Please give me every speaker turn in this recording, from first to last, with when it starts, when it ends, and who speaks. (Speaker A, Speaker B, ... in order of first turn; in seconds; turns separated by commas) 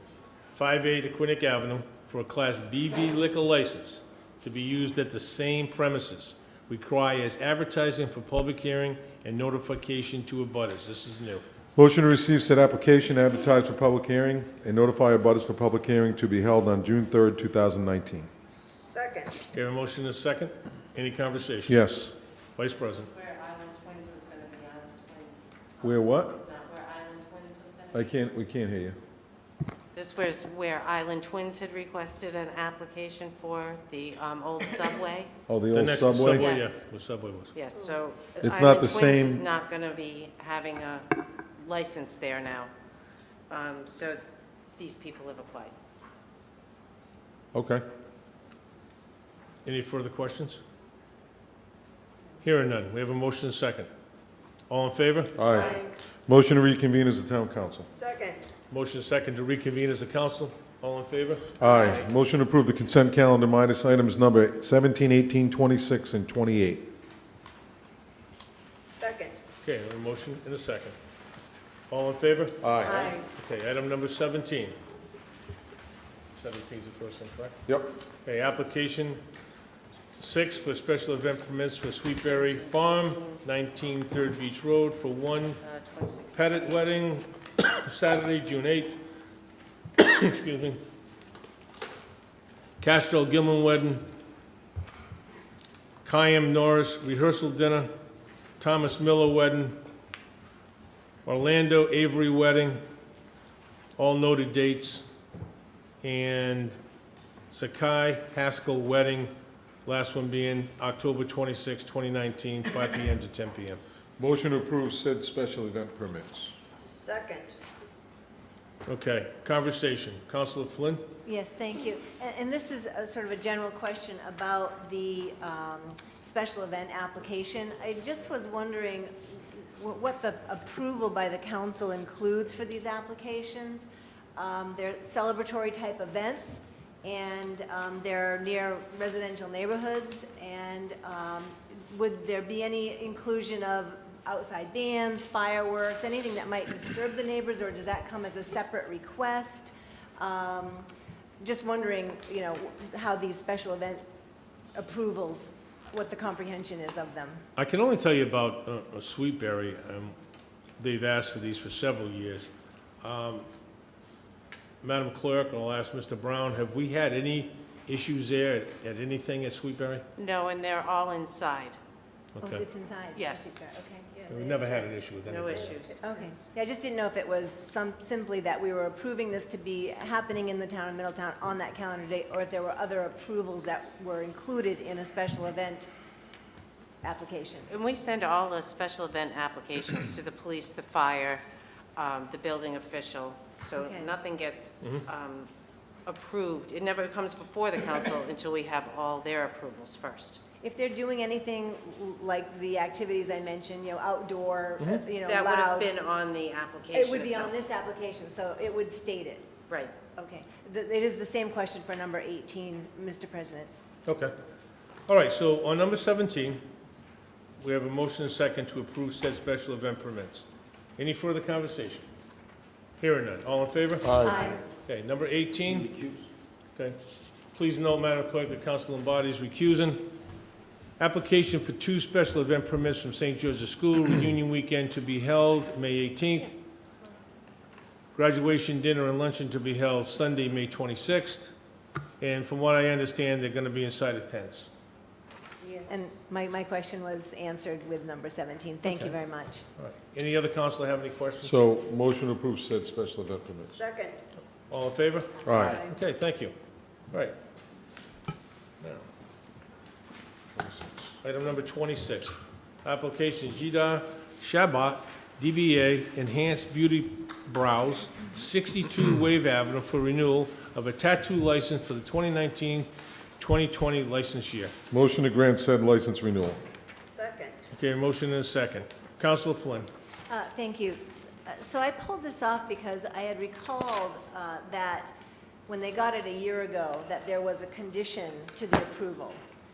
Speaker A: 0.5-11.4, Speaker B: 11.8-18.3, Speaker C: 18.6-19.4, Speaker A: 19.5-21.8, Speaker B: 21.7-22.1, Speaker A: 22.6-23.1, Speaker D: 23.0-28.1, Speaker B: 25.8-26.4, Speaker B: 27.9-29.0, Speaker D: 29.9-35.3, Speaker B: 35.5-36.5, Speaker A: 35.7-37.5, Speaker D: 36.3-36.8, Speaker D: 37.5-42.7, Speaker B: 38.4-39.4, Speaker D: 43.5-44.2, Speaker D: 44.8-45.7, Speaker B: 47.5-47.9, Speaker A: 49.6-50.6, Speaker A: 52.4-53.9, Speaker A: 54.7-55.4, Speaker B: 55.4-57.9, Speaker C: 55.6-56.0, Speaker C: 57.9-58.4, Speaker A: 58.7-61.7, Speaker B: 61.6-66.9, Speaker C: 68.9-69.4, Speaker A: 69.6-71.0, Speaker A: 71.9-74.8, Speaker B: 72.6-73.2, Speaker E: 72.8-73.2, Speaker A: 76.4-77.6, Speaker B: 77.7-77.9, Speaker A: 78.2-79.2, Speaker A: 80.2-85.6, Speaker D: 82.4-83.4, Speaker D: 85.6-86.7, Speaker A: 86.3-89.0, Speaker A: 90.0-90.8, Speaker A: 92.8-94.1, Speaker A: 96.0-97.9, Speaker A: 98.6-99.8, Speaker A: 101.2-102.8, Speaker A: 104.0-105.0, Speaker A: 106.0-106.8, Speaker A: 107.5-109.3, Speaker A: 109.8-113.8, Speaker B: 114.2-116.5, Speaker C: 116.8-117.6, Speaker A: 118.9-121.0, Speaker E: 121.2-150.9, Speaker E: 151.4-154.0, Speaker E: 154.7-157.4, Speaker A: 157.6-160.2, Speaker A: 160.8-162.5, Speaker A: 163.0-163.5, Speaker A: 164.8-170.1, Speaker D: 170.2-171.8, Speaker A: 172.4-172.6, Speaker E: 172.4-174.9, Speaker D: 173.2-173.6, Speaker A: 174.3-175.7, Speaker D: 175.2-176.0, Speaker C: 175.7-176.3, Speaker E: 176.0-185.9, Speaker E: 187.0-187.7, Speaker D: 187.7-191.4, Speaker D: 192.0-195.5, Speaker E: 193.8-194.1, Speaker D: 196.1-200.4, Speaker E: 200.6-205.9, Speaker D: 205.2-207.6, Speaker E: 206.9-209.5, Speaker D: 209.7-209.9, Speaker E: 210.2-213.7, Speaker A: 214.1-214.3, Speaker A: 215.1-216.6, Speaker A: 217.6-220.5, Speaker A: 221.0-222.1, Speaker A: 223.0-224.2, Speaker B: 224.0-224.5, Speaker E: 224.2-224.6, Speaker A: 224.8-225.9, Speaker B: 225.8-226.1, Speaker A: 227.5-230.1, Speaker A: 231.0-236.6, Speaker A: 238.2-241.5, Speaker A: 242.2-244.7, Speaker C: 245.6-245.9, Speaker E: 245.9-249.7, Speaker A: 248.9-249.1, Speaker A: 249.8-251.5, Speaker B: 251.4-253.7, Speaker C: 253.7-254.2, Speaker A: 254.7-256.5, Speaker B: 255.4-255.8, Speaker E: 255.7-255.9, Speaker B: 260.6-261.1, Speaker A: 261.2-274.7, Speaker B: 274.9-276.6, Speaker C: 277.1-277.6, Speaker A: 277.7-279.9, Speaker E: 280.3-285.1, Speaker E: 285.7-289.4